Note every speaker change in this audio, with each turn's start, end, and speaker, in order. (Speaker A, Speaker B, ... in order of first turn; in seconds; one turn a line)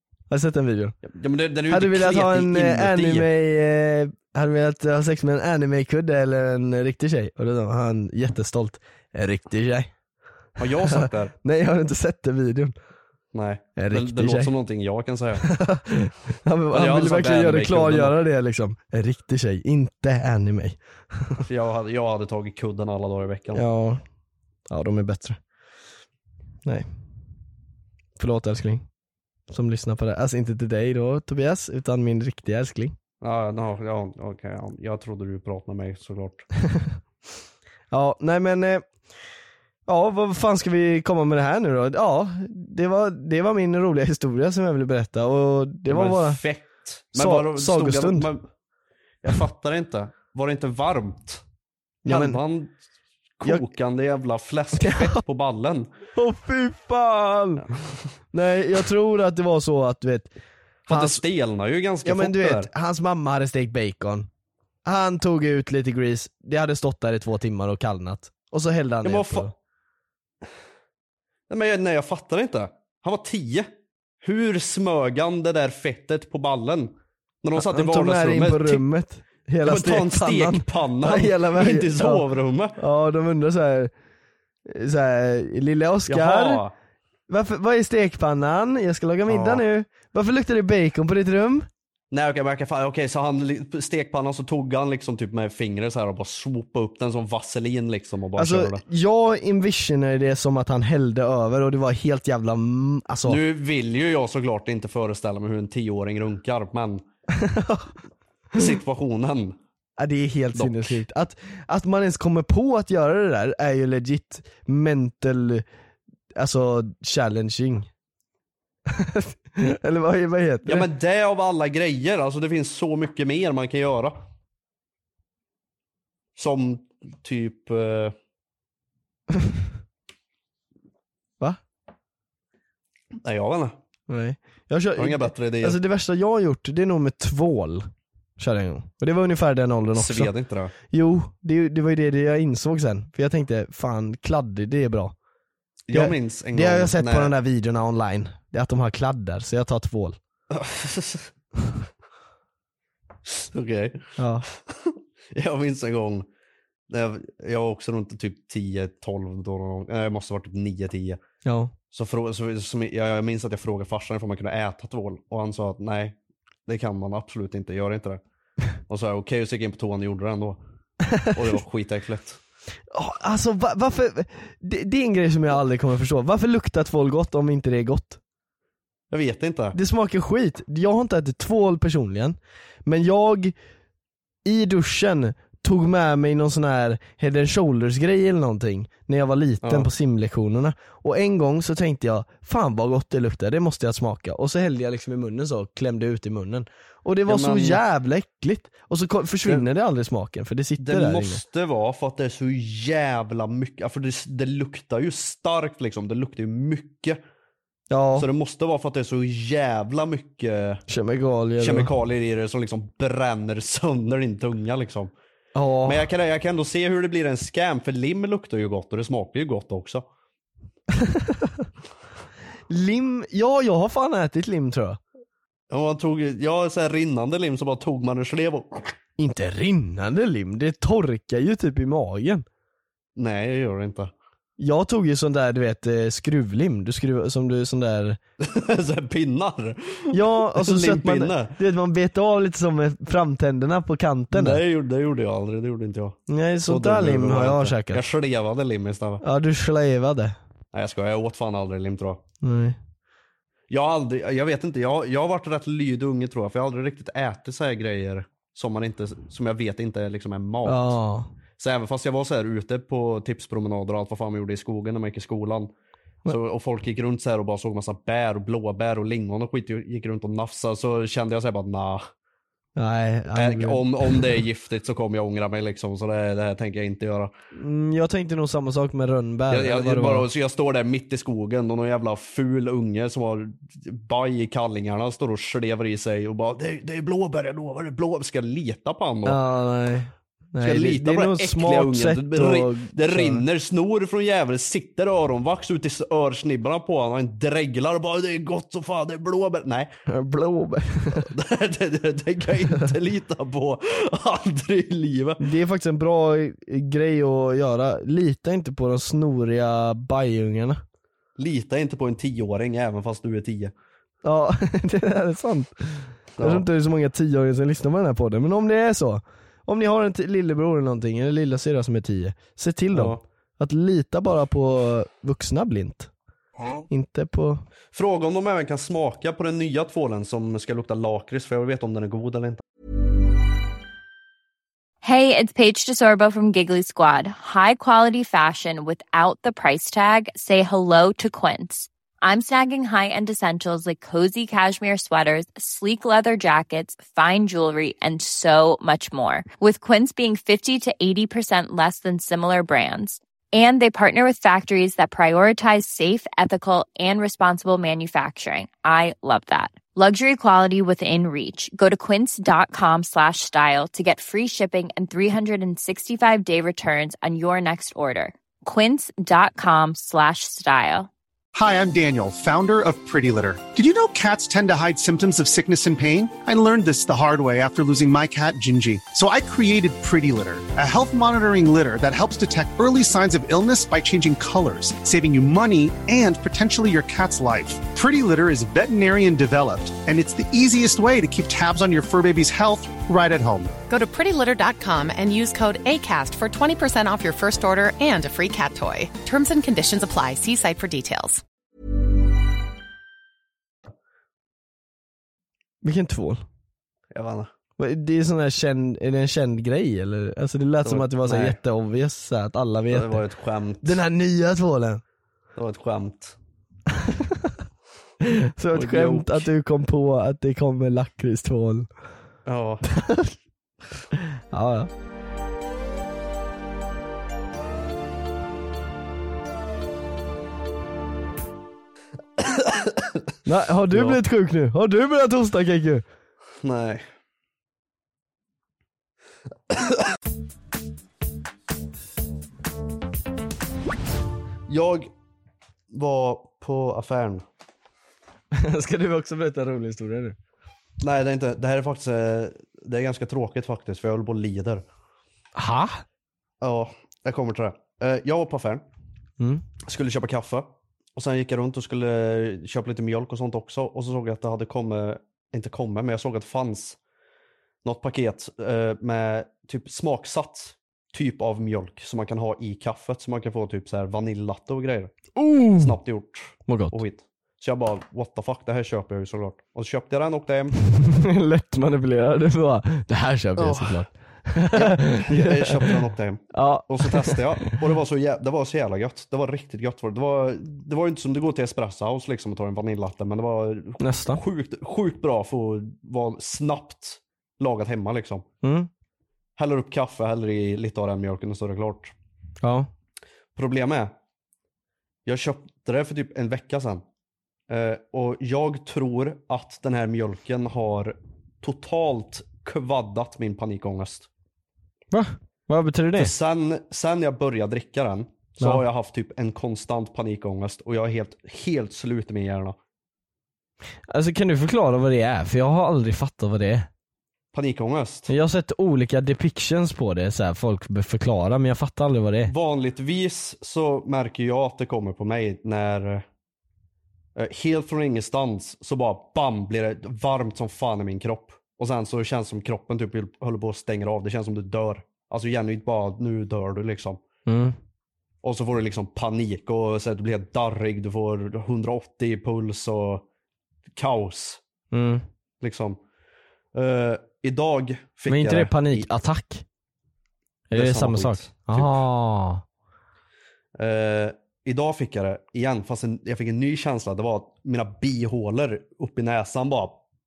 Speaker A: 0.3-1.0
Speaker B: 1.1-3.3
Speaker A: 1.7-9.9
Speaker B: 10.6-11.3
Speaker A: 10.6-12.7
Speaker B: 13.3-15.5
Speaker A: 13.8-14.5
Speaker A: 15.4-21.4
Speaker B: 16.7-18.2
Speaker B: 21.4-23.6
Speaker A: 23.5-24.0
Speaker A: 24.7-25.4
Speaker A: 28.2-28.9
Speaker A: 29.5-33.0
Speaker B: 33.2-36.5
Speaker A: 36.7-37.0
Speaker A: 37.9-38.9
Speaker A: 39.9-46.4
Speaker B: 45.9-48.5
Speaker A: 47.1-48.3
Speaker B: 49.2-51.4
Speaker A: 52.0-52.4
Speaker B: 52.1-52.7
Speaker B: 53.4-55.9
Speaker A: 54.8-55.2
Speaker A: 56.2-57.7
Speaker A: 58.3-60.3
Speaker A: 60.9-61.2
Speaker B: 60.9-62.7
Speaker A: 62.0-64.3
Speaker A: 64.8-69.5
Speaker B: 69.0-69.5
Speaker B: 71.5-73.7
Speaker B: 74.2-78.8
Speaker A: 77.6-82.2
Speaker B: 79.6-82.8
Speaker A: 82.8-83.9
Speaker A: 84.7-86.6
Speaker B: 86.1-86.7
Speaker A: 87.3-91.7
Speaker B: 89.3-89.6
Speaker B: 92.1-98.8
Speaker A: 98.4-103.4
Speaker B: 103.3-107.0
Speaker A: 107.3-108.0
Speaker B: 108.5-109.6
Speaker A: 110.0-115.7
Speaker B: 110.5-111.0
Speaker A: 116.3-117.9
Speaker A: 118.9-120.9
Speaker B: 120.7-124.2
Speaker B: 126.4-128.2
Speaker A: 129.3-129.6
Speaker B: 133.2-133.8
Speaker A: 134.1-140.3
Speaker B: 135.0-135.8
Speaker B: 139.9-140.7
Speaker A: 140.9-145.1
Speaker B: 145.9-147.3
Speaker A: 145.9-150.2
Speaker B: 150.5-151.3
Speaker B: 153.3-154.2
Speaker A: 154.2-154.5
Speaker B: 154.8-156.3
Speaker B: 156.9-161.2
Speaker A: 161.4-161.7
Speaker B: 161.9-166.2
Speaker B: 166.7-168.2
Speaker B: 168.9-170.6
Speaker A: 171.1-171.4
Speaker B: 171.2-172.4
Speaker A: 172.9-178.2
Speaker B: 179.1-179.8
Speaker A: 179.7-183.6
Speaker A: 184.4-201.4
Speaker B: 189.6-189.9
Speaker B: 197.3-197.8
Speaker B: 200.8-207.2
Speaker A: 207.9-208.3
Speaker B: 208.2-210.8
Speaker A: 210.9-211.9
Speaker B: 211.6-215.1
Speaker A: 215.6-216.1
Speaker B: 215.9-220.1
Speaker A: 220.9-221.7
Speaker A: 222.7-225.0
Speaker B: 225.7-228.9
Speaker A: 229.2-232.5
Speaker B: 233.2-234.1
Speaker A: 234.6-238.2
Speaker B: 238.4-241.6
Speaker A: 240.1-244.6
Speaker B: 244.3-249.2
Speaker A: 246.3-248.1
Speaker A: 249.2-250.4
Speaker B: 250.7-252.2
Speaker A: 252.4-252.8
Speaker B: 253.7-260.9
Speaker A: 260.6-261.3
Speaker B: 261.6-265.7
Speaker B: 266.3-272.0
Speaker A: 272.8-274.4
Speaker B: 273.4-277.3
Speaker A: 277.5-280.3
Speaker B: 279.5-289.4
Speaker A: 289.2-293.4
Speaker B: 290.6-299.9
Speaker A: 300.1-301.3
Speaker B: 301.1-305.4
Speaker A: 305.4-310.8
Speaker B: 311.4-313.7
Speaker A: 314.2-326.1
Speaker B: 316.4-316.6
Speaker B: 322.9-323.2
Speaker A: 326.9-327.6
Speaker B: 327.9-332.6
Speaker C: 335.0-371.1
Speaker D: 371.5-393.8
Speaker E: 393.9-401.4
Speaker A: 405.8-406.4
Speaker B: 407.1-407.5
Speaker A: 407.8-413.2
Speaker B: 410.9-411.6
Speaker B: 412.9-414.0
Speaker A: 413.8-415.0
Speaker B: 415.6-416.4
Speaker A: 416.9-417.6
Speaker A: 418.2-421.9
Speaker B: 418.7-419.5
Speaker B: 422.5-422.9
Speaker A: 422.9-423.4
Speaker A: 424.2-424.9
Speaker B: 432.4-433.2
Speaker A: 433.4-436.0
Speaker B: 433.9-434.2
Speaker B: 436.6-437.0
Speaker B: 444.7-445.1
Speaker B: 445.9-447.4
Speaker A: 448.5-450.4
Speaker B: 451.0-454.9
Speaker A: 455.6-456.0
Speaker B: 456.6-458.8
Speaker A: 459.4-459.6
Speaker B: 459.9-467.0
Speaker B: 467.8-475.2
Speaker A: 475.4-476.0
Speaker B: 475.8-480.8
Speaker A: 476.7-477.0
Speaker A: 480.9-487.6
Speaker B: 483.6-484.1
Speaker B: 484.7-498.4
Speaker A: 494.0-494.4
Speaker A: 498.6-498.9
Speaker B: 499.6-502.1
Speaker A: 502.6-502.9
Speaker B: 503.6-504.1
Speaker B: 505.3-507.0
Speaker B: 507.7-514.3
Speaker A: 515.1-516.3
Speaker B: 516.2-522.8
Speaker A: 524.1-526.9
Speaker B: 527.5-528.3
Speaker A: 528.3-532.5
Speaker B: 532.5-536.2
Speaker B: 537.4-547.2
Speaker A: 547.5-547.8
Speaker B: 548.4-553.2
Speaker B: 554.0-554.6
Speaker A: 554.9-555.2
Speaker B: 555.6-556.0
Speaker B: 556.7-559.1
Speaker A: 558.3-559.6
Speaker A: 560.7-562.6
Speaker B: 560.7-562.0
Speaker B: 563.8-570.0